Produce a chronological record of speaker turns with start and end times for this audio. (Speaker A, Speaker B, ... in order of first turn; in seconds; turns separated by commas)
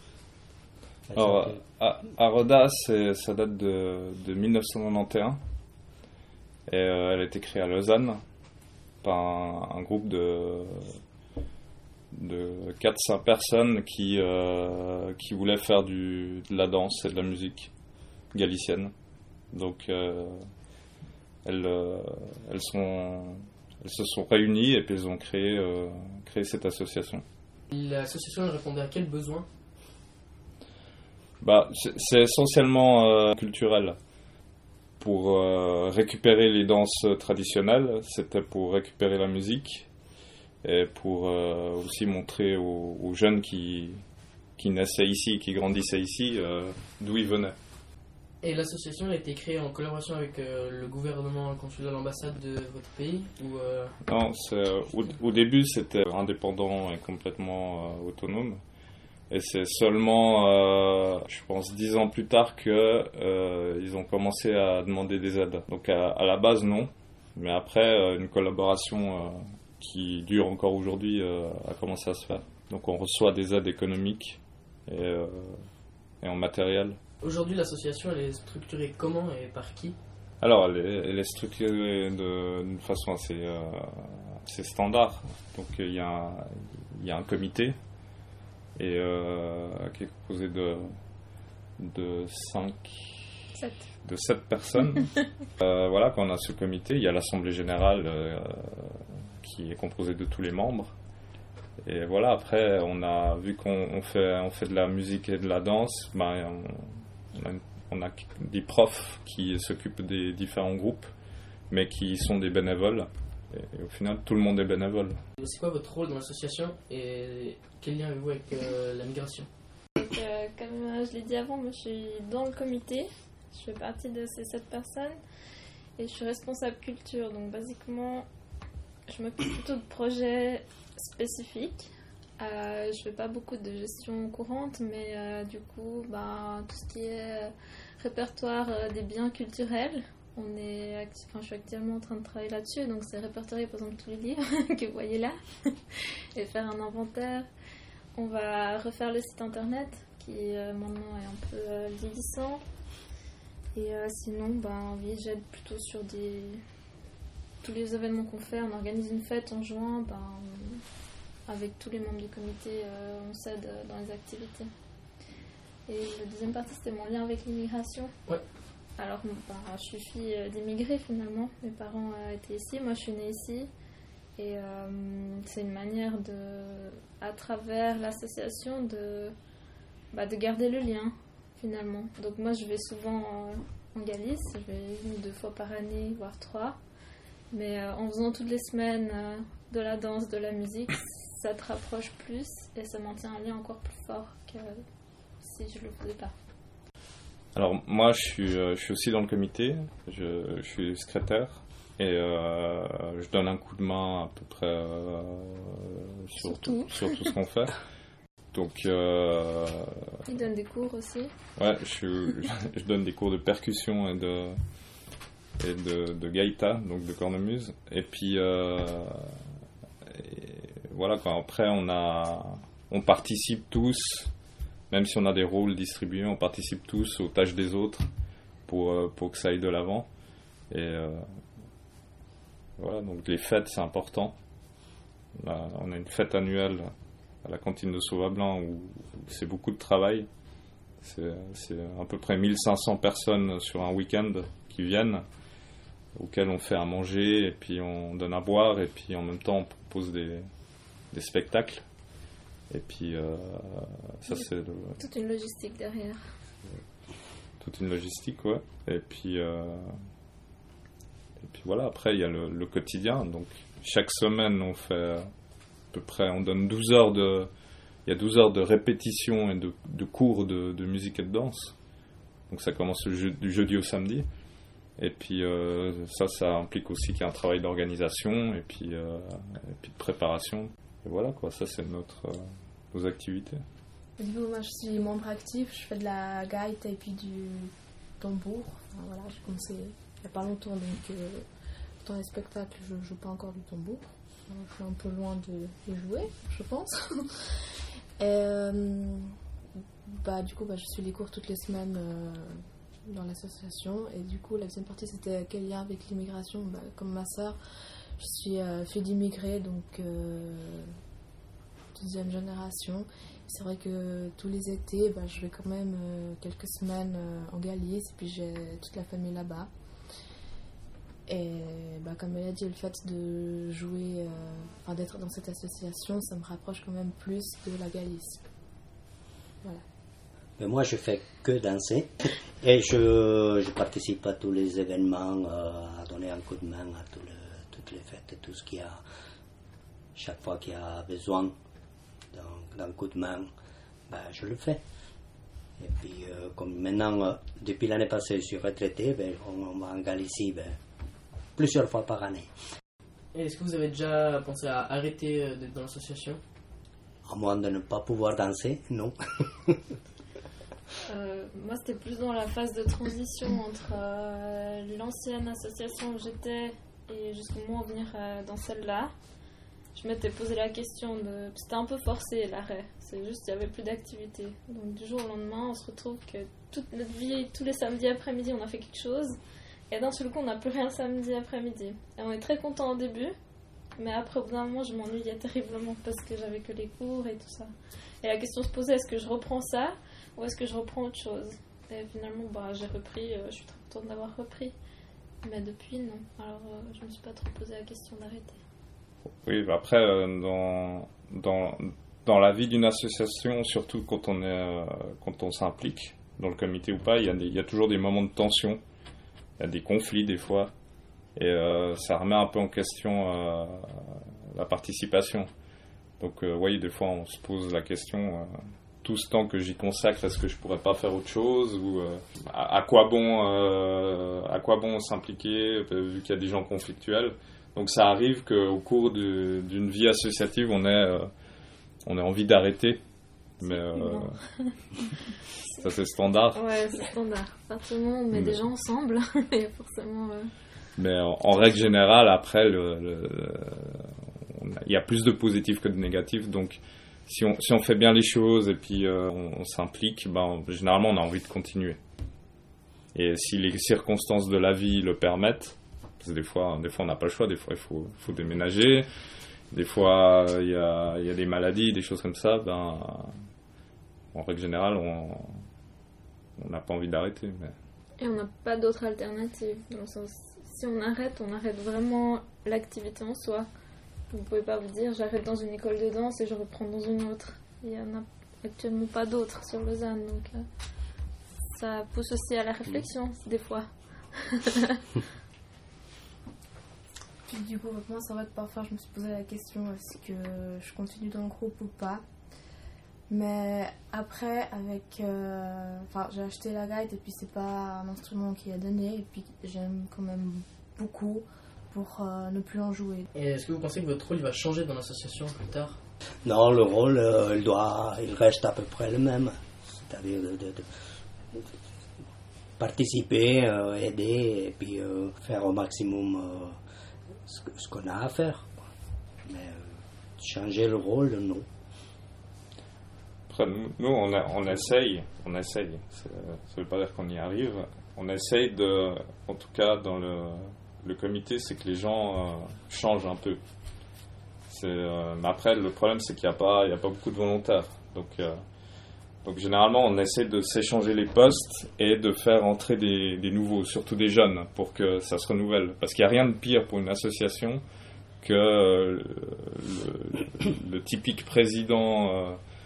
Speaker A: 1.1-1.6, Speaker B: 1.1-5.4, Speaker B: 6.7-8.2, Speaker B: 9.0-11.0, Speaker B: 12.1-17.7, Speaker B: 18.3-18.9, Speaker B: 19.5-20.4, Speaker B: 21.4-27.2, Speaker C: 27.7-29.5, Speaker B: 31.4-34.0, Speaker B: 35.0-39.9, Speaker B: 40.6-44.0, Speaker B: 44.6-47.5, Speaker C: 48.4-53.9, Speaker B: 54.1-58.6, Speaker B: 59.3-75.6, Speaker B: 76.2-77.0, Speaker C: 77.2-80.0, Speaker B: 80.4-87.8, Speaker B: 88.8-90.9, Speaker B: 91.8-93.3, Speaker D: 93.5-93.9, Speaker B: 94.0-100.9, Speaker B: 101.8-111.1, Speaker B: 111.7-115.2, Speaker C: 115.4-119.5, Speaker D: 120.0-125.2, Speaker D: 126.0-128.2, Speaker D: 129.1-147.5, Speaker D: 148.2-152.6, Speaker D: 153.7-156.6, Speaker D: 157.6-160.8, Speaker D: 161.5-164.7, Speaker D: 165.9-168.1, Speaker D: 169.0-173.7, Speaker D: 174.4-179.3, Speaker D: 180.1-186.8, Speaker D: 187.5-194.8, Speaker D: 195.4-196.3, Speaker B: 197.5-207.8, Speaker D: 206.4-207.2, Speaker B: 208.5-209.9, Speaker D: 210.2-211.3, Speaker B: 211.6-214.6, Speaker B: 215.6-219.3, Speaker B: 220.1-224.3, Speaker B: 224.9-228.1, Speaker B: 228.7-230.1, Speaker B: 230.7-231.2, Speaker B: 232.8-234.3, Speaker B: 235.3-236.9, Speaker B: 237.4-240.3, Speaker B: 241.0-245.2, Speaker B: 246.2-250.5, Speaker B: 251.1-251.8, Speaker B: 252.7-255.0, Speaker D: 255.0-256.2, Speaker B: 257.6-259.8, Speaker B: 261.4-265.2, Speaker B: 265.9-267.5, Speaker B: 268.1-271.8, Speaker B: 272.5-274.3, Speaker B: 275.0-282.4, Speaker B: 282.9-283.6, Speaker E: 284.2-291.4, Speaker E: 292.0-297.6, Speaker E: 298.2-299.3, Speaker E: 300.1-307.6, Speaker E: 308.2-310.9, Speaker E: 311.9-319.7, Speaker E: 321.3-328.4, Speaker A: 330.6-339.0, Speaker A: 340.1-341.5, Speaker A: 342.3-343.5, Speaker A: 344.1-344.8, Speaker A: 345.8-350.8, Speaker A: 351.6-352.5, Speaker C: 353.3-356.4, Speaker A: 357.2-359.8, Speaker D: 361.1-369.1, Speaker D: 369.9-379.3, Speaker D: 379.9-383.3, Speaker D: 384.0-387.7, Speaker D: 388.2-394.7, Speaker D: 395.4-398.6, Speaker B: 399.4-408.8, Speaker B: 409.6-410.7, Speaker B: 411.4-415.5, Speaker B: 416.2-418.5, Speaker B: 419.0-431.3, Speaker B: 432.0-433.0, Speaker B: 433.6-434.3, Speaker D: 433.6-435.9, Speaker B: 435.8-436.6, Speaker D: 436.5-440.5, Speaker B: 438.3-438.7, Speaker B: 441.0-452.0, Speaker B: 453.1-459.1, Speaker B: 459.7-463.3, Speaker B: 464.3-465.5, Speaker B: 466.6-467.7, Speaker D: 468.2-473.7, Speaker D: 474.3-480.6, Speaker D: 481.6-485.0, Speaker E: 487.5-492.2, Speaker E: 493.3-503.3, Speaker C: 503.3-506.0, Speaker A: 506.4-510.9, Speaker A: 512.8-516.8, Speaker A: 517.5-518.8, Speaker A: 519.5-519.8, Speaker A: 520.4-521.6, Speaker B: 523.5-533.6, Speaker B: 534.7-538.5, Speaker B: 539.4-547.8, Speaker B: 548.4-552.6